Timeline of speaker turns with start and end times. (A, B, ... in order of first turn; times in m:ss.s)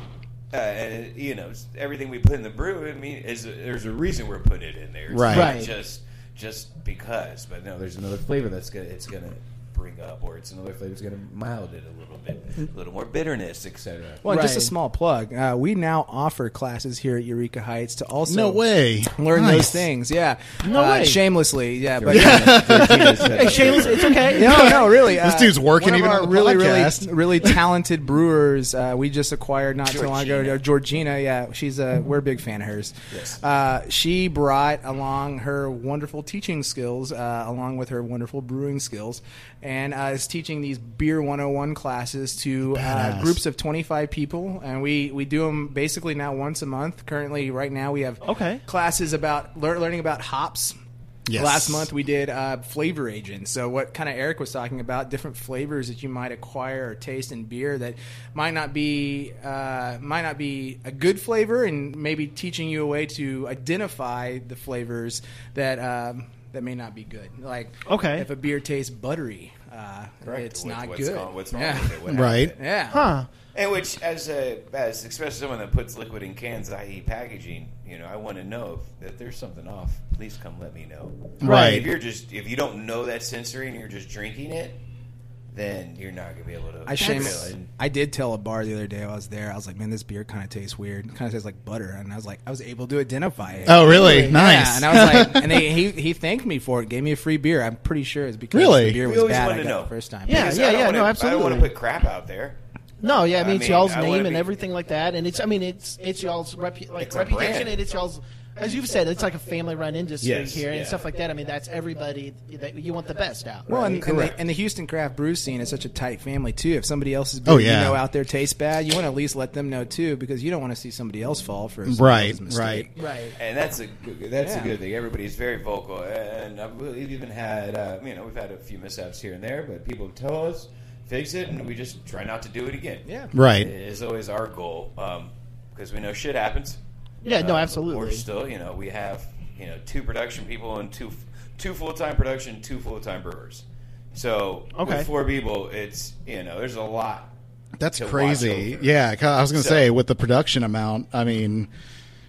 0:00.5-0:14.2 A
0:05.1-0:05.6 B
0:05.3-0:05.7 C
0:14.2-0:18.6 D
0:14.3-0:14.7 C
0:18.2-0:19.9 B
0:19.1-0:23.0 D
0:20.6-0:21.2 C
0:22.0-0:24.2 A
0:22.1-0:27.6 B
0:23.3-0:24.9 C
0:24.3-0:50.8 D
0:29.8-0:30.6 A
0:33.1-0:33.4 A
0:42.7-0:43.4 B
0:48.2-0:48.6 C
0:51.2-0:51.9 B
0:51.3-1:12.0 D
1:07.9-1:08.3 C
1:10.2-1:12.7 A
1:12.1-1:12.5 B
1:12.5-1:13.0 D
1:12.9-1:13.3 C
1:13.5-1:24.8 A
1:21.4-1:21.9 B
1:21.4-1:21.8 C
1:25.5-1:27.7 A
1:26.8-1:40.4 D
1:27.0-1:27.3 C
1:33.4-1:33.9 A
1:33.6-1:35.8 B
1:33.9-1:34.4 C
1:38.5-1:39.0 B
1:39.0-1:42.6 A
1:40.2-1:41.7 C
1:43.0-1:54.2 C
1:43.3-1:44.5 A
1:47.0-1:47.8 A
1:50.2-1:51.0 A
1:53.7-2:02.9 D
1:54.0-1:54.3 B
1:57.4-1:58.0 B
2:01.8-2:02.9 B
2:03.0-2:03.4 C
2:03.4-2:16.8 A
2:04.4-2:04.7 D
2:13.0-2:13.3 D
2:13.3-2:13.7 B
2:17.2-2:18.2 C
2:17.4-2:27.3 A
2:24.7-2:25.1 C
2:27.8-2:31.7 B
2:27.9-2:28.9 A
2:29.5-2:29.8 A